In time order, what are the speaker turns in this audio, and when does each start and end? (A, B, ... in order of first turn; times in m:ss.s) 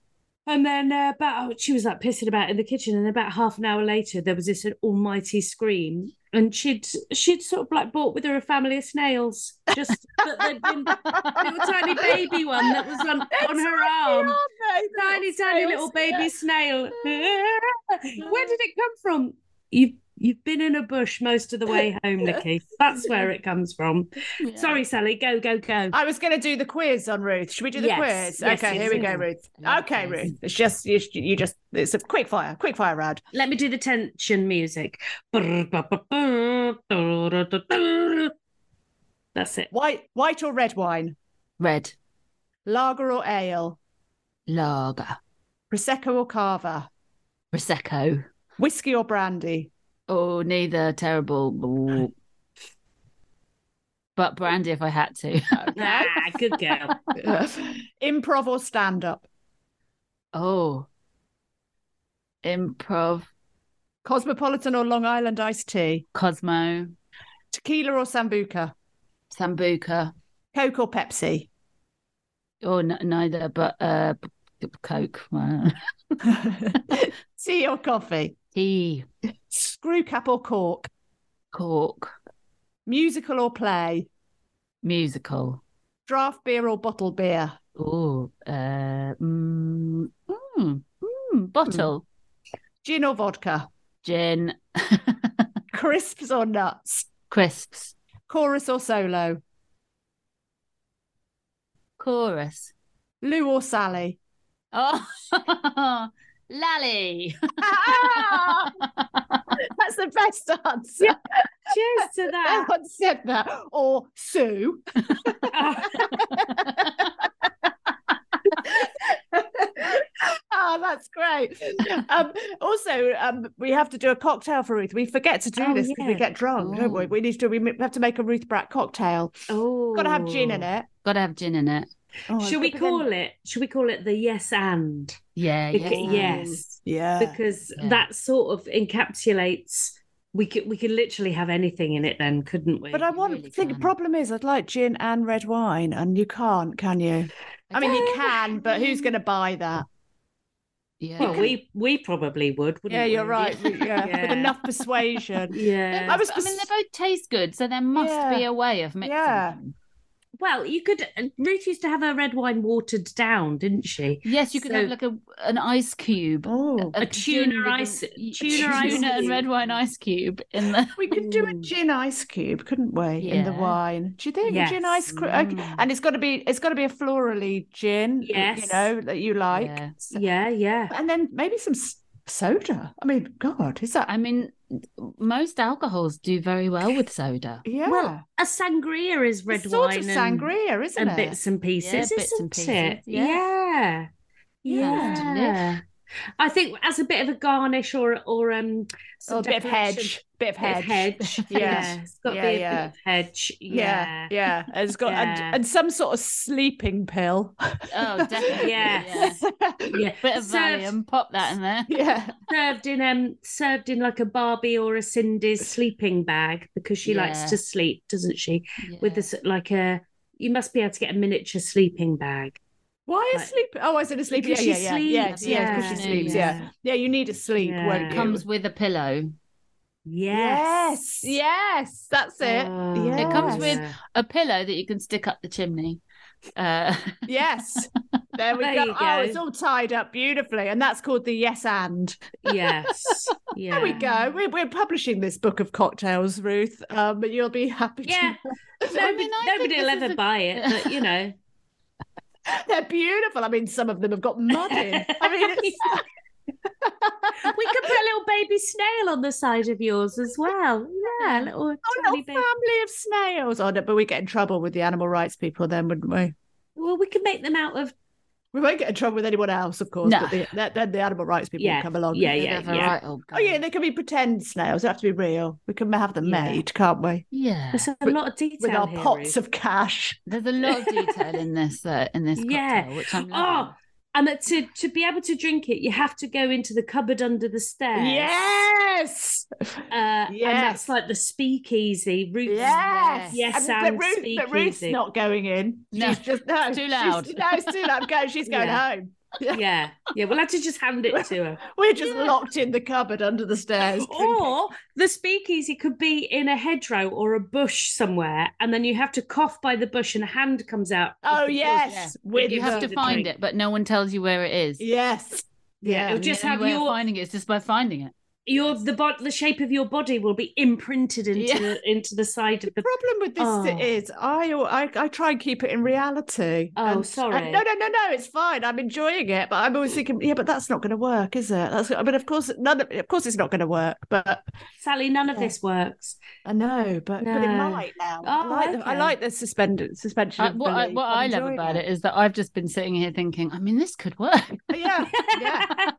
0:00.4-0:14.4 A
0:09.8-0:16.3 B
0:11.1-0:11.4 C
0:14.9-0:26.0 A
0:18.3-0:18.5 B
0:24.4-0:24.8 C
0:25.9-0:33.2 B
0:27.7-0:29.2 A
0:28.6-0:30.3 C
0:33.3-0:38.3 A
0:39.3-0:39.7 A
0:39.7-0:41.2 B
0:41.6-0:41.9 C
0:42.6-0:43.8 B
0:44.5-0:45.2 C
0:45.7-0:46.9 B
0:47.5-0:48.2 C
0:48.6-0:49.7 B
0:50.1-0:52.1 C
0:54.2-0:55.7 C
0:55.5-0:56.2 B
0:55.8-0:56.9 A
0:57.2-0:59.2 B
1:00.3-1:00.9 C
1:02.4-1:03.3 C
1:04.0-1:06.0 B
1:06.1-1:06.9 C
1:07.5-1:08.7 B
1:09.3-1:10.1 C
1:10.5-1:11.5 B
1:12.6-1:16.2 C
1:16.2-1:18.4 B
1:18.5-1:19.0 C
1:19.5-1:20.9 B
1:21.5-1:22.1 C
1:22.8-1:24.1 B
1:24.8-1:25.6 C
1:26.1-1:27.6 B
1:27.8-1:32.0 C
1:32.8-1:33.7 B
1:34.0-1:35.5 C
1:35.7-1:37.1 B
1:37.3-1:37.9 C
1:38.3-1:39.4 B
1:42.0-1:42.7 C
1:43.2-1:44.2 B
1:44.7-1:49.4 C
1:47.6-1:48.7 B
1:49.6-1:51.2 B
1:51.7-1:52.7 A
1:52.4-1:57.3 B
1:55.5-1:56.1 A
1:56.3-1:57.0 C
1:58.5-2:09.3 B
2:05.6-2:06.2 A
2:06.6-2:07.1 C
2:09.5-2:10.7 A
2:09.9-2:10.9 B
2:11.0-2:11.9 C
2:12.3-2:13.0 B
2:12.4-2:15.2 A
2:15.4-2:16.6 C
2:15.7-2:23.0 A
2:15.8-2:17.4 B
2:17.8-2:18.0 C
2:22.9-2:29.8 B
2:23.1-2:23.9 C
2:27.7-2:29.1 C
2:27.8-2:28.2 A
2:31.0-2:31.5 C
2:31.2-2:31.6 B
2:31.2-2:34.6 A
2:32.9-2:36.7 B
2:33.4-2:34.0 C
2:35.5-2:36.2 A
2:35.9-2:39.7 C
2:37.9-2:38.4 B
2:39.0-2:39.6 B
2:40.4-2:44.9 A
2:44.2-2:50.9 C
2:46.4-2:47.0 B
2:47.0-2:49.4 A
2:48.5-2:49.7 B
2:51.0-3:00.2 B
2:51.1-2:51.7 A
2:53.2-2:53.8 C
2:54.4-2:55.0 A
2:55.1-2:55.8 C
2:58.2-2:58.9 A
2:59.5-3:00.0 C
3:00.1-3:00.9 A
3:00.9-3:04.1 B
3:04.1-3:07.6 C
3:07.6-3:08.2 B
3:07.8-3:14.1 A
3:09.5-3:11.4 B
3:11.8-3:13.4 C
3:14.6-3:15.8 A
3:14.6-3:15.2 B
3:14.8-3:15.6 C
3:16.4-3:24.3 A
3:19.3-3:22.9 B
3:21.2-3:21.9 C
3:23.7-3:30.0 B
3:25.0-3:25.6 A
3:27.9-3:29.4 C
3:28.6-3:29.4 A
3:29.9-3:30.9 A
3:30.2-3:32.0 C
3:31.9-3:32.4 B
3:32.5-3:42.6 A
3:37.0-3:37.6 C
3:38.8-3:39.3 C
3:43.1-3:48.4 B
3:44.3-3:46.6 A
3:45.2-3:46.6 C
3:47.6-3:48.3 A
3:48.1-3:49.3 C
3:50.0-3:51.3 A
3:50.3-3:53.8 B
3:52.4-3:54.0 A
3:53.2-3:56.0 C
3:56.6-3:57.4 C
3:57.3-4:02.2 B
3:58.6-3:59.4 A
4:02.4-4:04.3 A
4:03.7-4:08.3 B
4:08.0-4:11.3 A
4:08.9-4:11.0 C
4:12.4-4:16.0 B
4:14.7-4:16.0 A
4:16.8-4:17.9 B
4:17.4-4:22.5 A
4:21.2-4:21.5 C
4:21.8-4:26.3 B
4:26.8-4:27.9 A
4:28.5-4:32.4 B
4:30.0-4:30.4 C
4:31.6-4:32.9 A
4:32.4-4:33.6 C
4:33.3-4:37.2 B
4:36.2-4:36.6 A
4:37.3-4:37.9 C
4:37.7-4:39.4 A
4:38.0-4:40.2 B
4:40.3-4:43.7 C
4:40.7-4:41.2 A
4:42.4-4:48.3 A
4:47.9-4:50.9 B
4:49.9-4:55.0 A
4:52.4-4:59.6 B
4:53.0-4:53.4 C
4:55.9-4:57.8 C
4:58.4-4:58.8 A
4:59.5-5:02.4 A
5:01.1-5:04.5 B
5:04.0-5:13.3 A
5:11.2-5:13.3 B
5:11.8-5:14.8 C
5:14.8-5:16.2 B
5:15.8-5:17.0 A
5:16.1-5:18.1 C
5:18.5-5:23.9 A
5:21.3-5:21.8 C
5:22.7-5:34.5 B
5:26.8-5:27.6 A
5:34.8-5:36.2 A
5:36.4-5:41.8 B
5:37.2-5:39.1 A
5:40.4-5:45.0 C
5:44.7-5:45.7 B
5:45.0-5:45.9 A